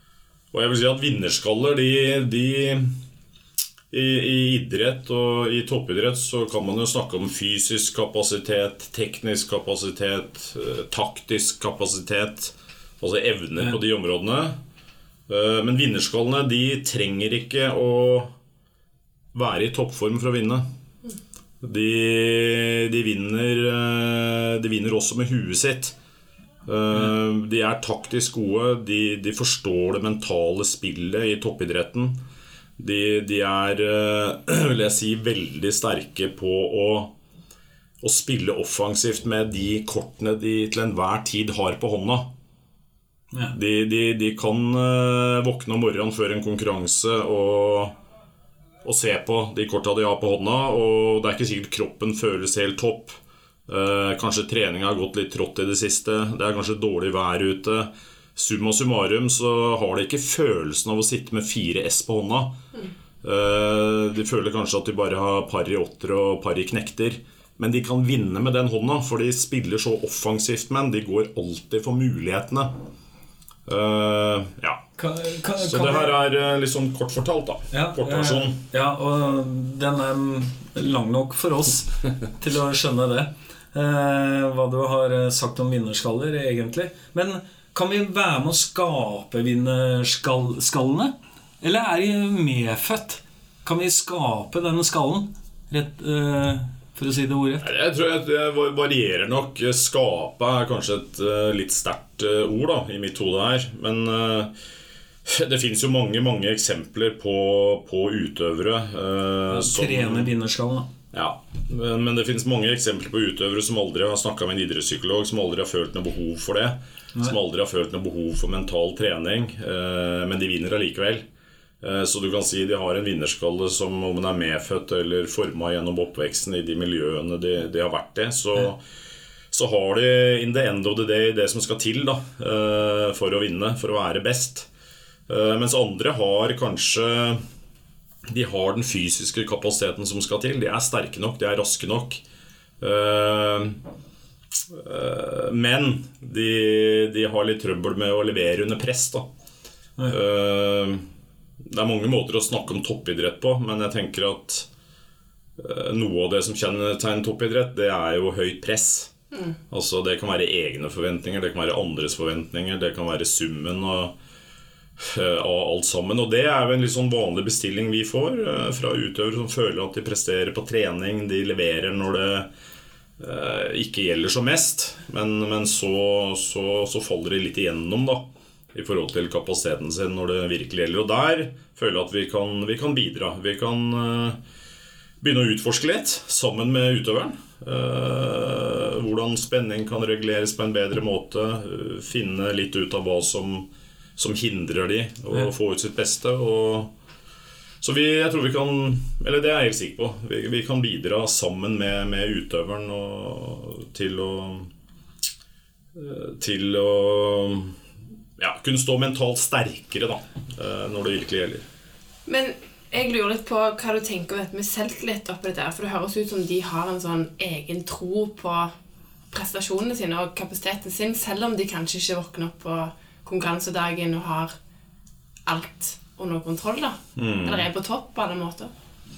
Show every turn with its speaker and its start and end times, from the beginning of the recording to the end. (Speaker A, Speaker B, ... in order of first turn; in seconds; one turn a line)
Speaker A: 0.5-2.9
Speaker A: 3.9-14.6
Speaker A: 15.3-18.3
Speaker A: 19.3-20.6
Speaker A: 21.6-26.0
Speaker A: 26.7-32.2
Speaker A: 32.8-37.1
Speaker A: 38.0-42.3
Speaker A: 43.5-47.9
Speaker A: 48.8-62.6
Speaker A: 63.2-72.7
Speaker A: 73.7-74.8
Speaker B: 75.0-76.1
Speaker A: 75.6-78.6
Speaker B: 77.7-97.7
Speaker A: 97.6-104.5
Speaker A: 105.3-110.3
Speaker B: 109.5-110.9
Speaker A: 111.1-121.2
Speaker A: 121.8-128.8
Speaker A: 129.5-134.7
Speaker A: 135.3-137.4
Speaker A: 138.3-142.2
Speaker A: 142.8-143.8
Speaker A: 144.7-149.3
Speaker A: 150.1-151.0
Speaker A: 151.7-154.7
Speaker A: 155.6-159.1
Speaker A: 159.7-164.2
Speaker A: 165.0-172.5
Speaker A: 173.2-184.4
Speaker A: 185.2-196.9
Speaker A: 197.8-204.7
Speaker A: 205.9-207.8
Speaker A: 208.4-211.7
Speaker C: 212.3-218.7
Speaker C: 219.3-224.6
Speaker C: 225.5-228.7
Speaker A: 227.2-227.7